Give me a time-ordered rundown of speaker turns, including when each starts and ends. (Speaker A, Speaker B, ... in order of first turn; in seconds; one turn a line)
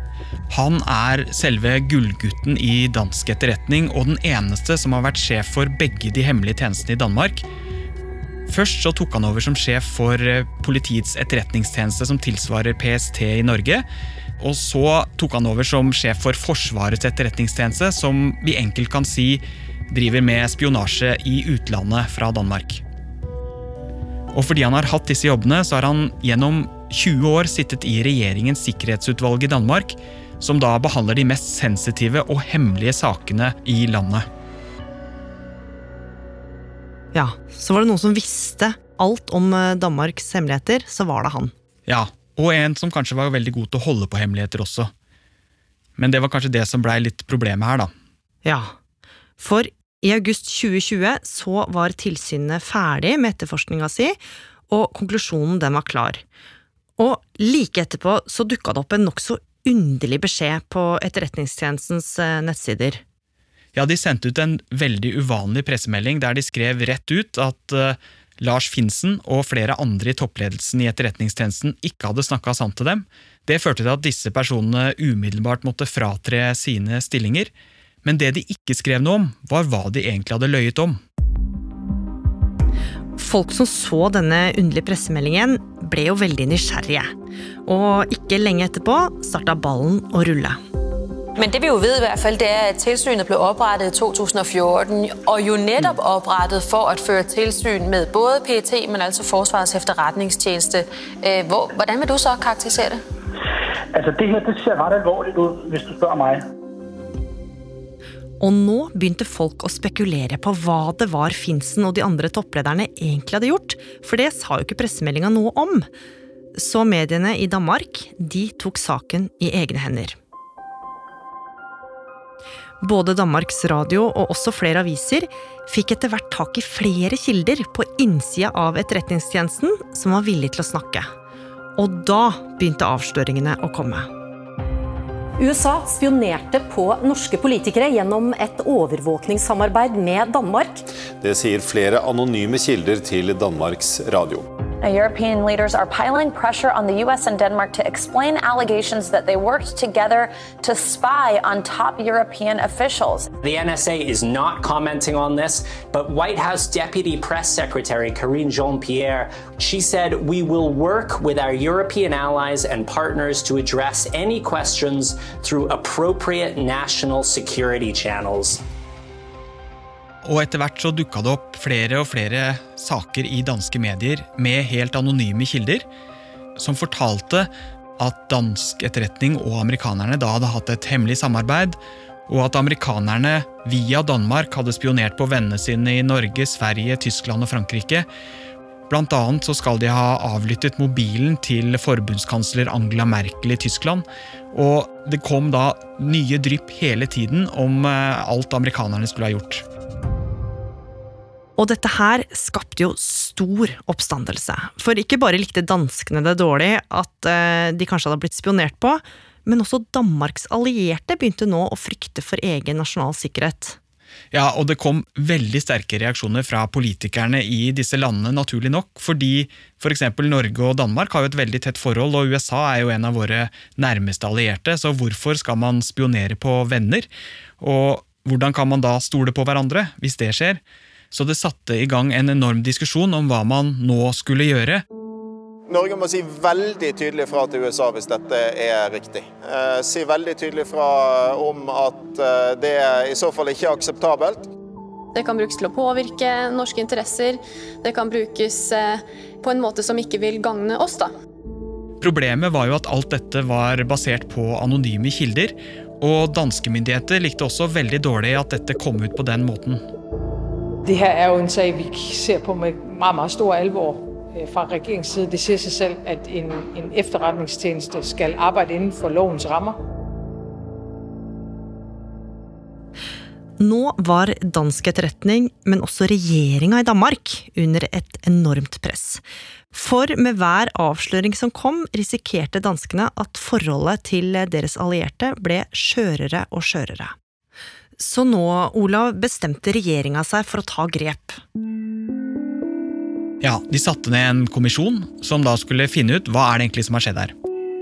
Speaker A: 0.5-7.5
Speaker A: 8.5-13.8
Speaker A: 14.4-22.8
Speaker A: 24.3-34.2
Speaker B: 37.1-41.5
Speaker A: 41.9-44.9
Speaker A: 46.0-47.9
Speaker B: 48.4-48.7
Speaker B: 49.4-54.2
Speaker B: 54.7-56.2
Speaker B: 57.0-63.0
Speaker A: 63.7-77.5
Speaker A: 78.0-81.0
Speaker B: 83.2-87.1
Speaker B: 87.7-90.6
Speaker C: 91.4-103.0
Speaker D: 104.0-106.3
Speaker B: 108.4-115.9
Speaker B: 116.5-120.2
Speaker B: 122.8-131.1
Speaker B: 131.8-134.1
Speaker E: 135.4-140.8
Speaker F: 141.2-144.5
Speaker G: 144.8-153.3
Speaker H: 153.4-168.6
Speaker A: 170.2-175.8
Speaker A: 176.6-188.1
Speaker A: 188.9-199.6
Speaker B: 201.6-213.8
Speaker A: 214.3-227.1
Speaker A: 227.6-234.8
Speaker I: 235.7-244.5
Speaker J: 245.1-251.1
Speaker A: 252.0-259.8
Speaker K: 260.8-269.8
Speaker B: 273.6-279.2
Speaker B: 279.7-287.1
Speaker B: 288.0-291.4
Speaker A: 293.4-297.3